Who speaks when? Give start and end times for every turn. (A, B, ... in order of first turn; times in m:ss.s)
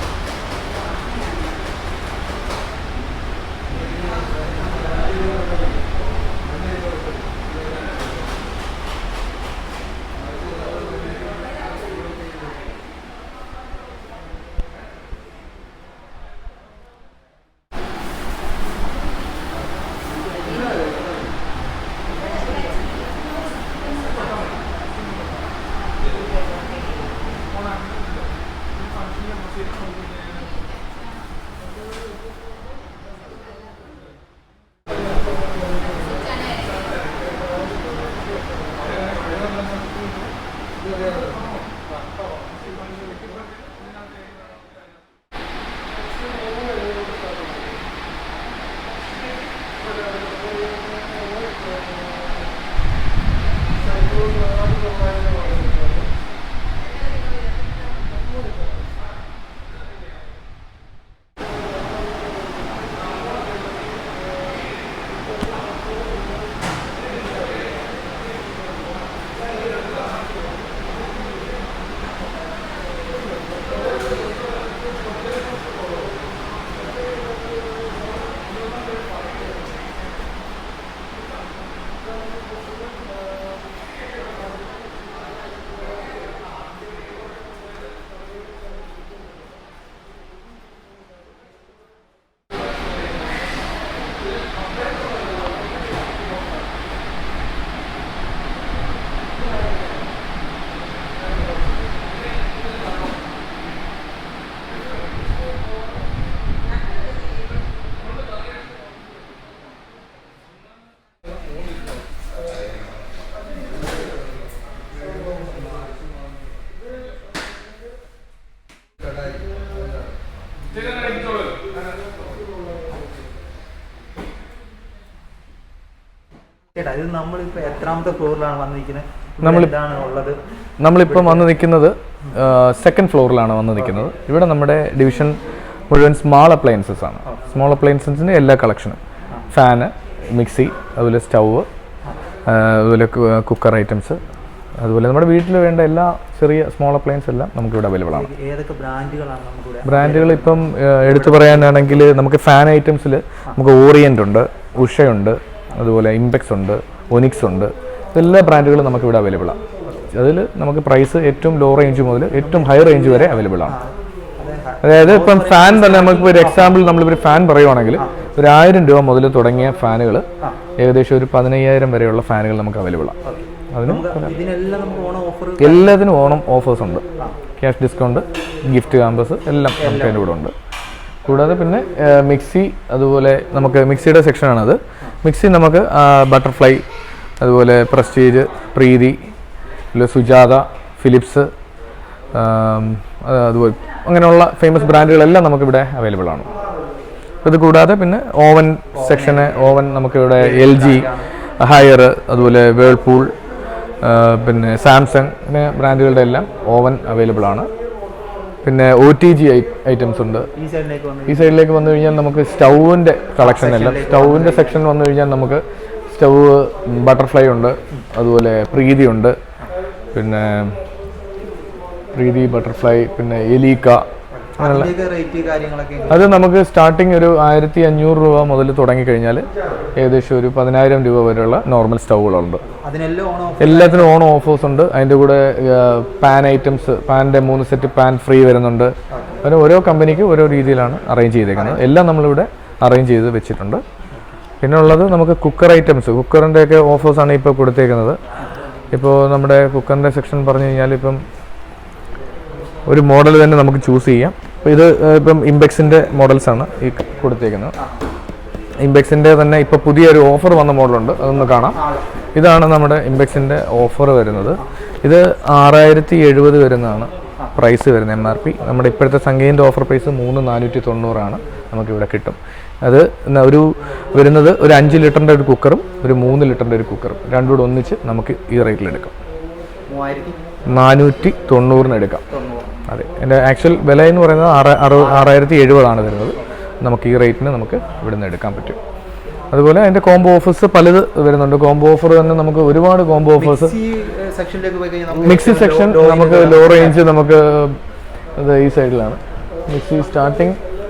2:06.8-2:10.4 A
2:09.4-2:09.7 B
2:10.8-2:15.4 B
2:11.0-2:11.5 A
2:15.9-2:19.0 B
2:19.5-2:21.7 B
2:22.4-2:24.2 B
2:24.8-2:28.3 B
2:28.1-2:32.0 A
2:29.8-2:39.6 B
2:40.1-2:43.8 B
2:42.4-2:46.8 A
2:44.8-2:50.2 B
2:50.8-2:53.2 B
2:53.2-2:55.9 A
2:53.7-2:54.3 B
2:55.6-2:57.0 B
2:57.6-3:00.5 B
2:59.8-3:00.2 A
3:01.2-3:06.8 B
3:07.4-3:09.2 B
3:09.9-3:11.5 B
3:12.3-3:16.5 B
3:17.4-3:23.3 B
3:18.9-3:19.7 A
3:20.3-3:21.3 A
3:24.0-3:27.7 B
3:28.6-3:30.5 B
3:30.6-3:31.6 A
3:31.3-3:39.4 B
3:33.4-3:34.8 A
3:40.1-3:40.8 B
3:42.1-3:44.0 B
3:44.3-3:46.3 A
3:44.6-3:44.9 B
3:46.1-3:49.4 B
3:50.0-3:52.6 B
3:52.6-3:54.1 A
3:53.6-4:03.8 B
3:59.1-3:59.4 A
4:01.5-4:01.8 A
4:04.6-4:08.2 B
4:08.9-4:11.2 B
4:12.9-4:17.8 B
4:17.8-4:18.0 A
4:18.8-4:21.8 B
4:21.7-4:22.0 A
4:22.3-4:39.1 B
4:39.9-4:40.4 A
4:40.7-4:42.2 B
4:42.3-4:42.8 A
4:42.9-4:48.8 B
4:45.0-4:45.2 A
4:49.5-4:53.8 B
4:53.4-4:57.0 A
4:55.1-4:57.8 B
4:58.4-5:00.6 B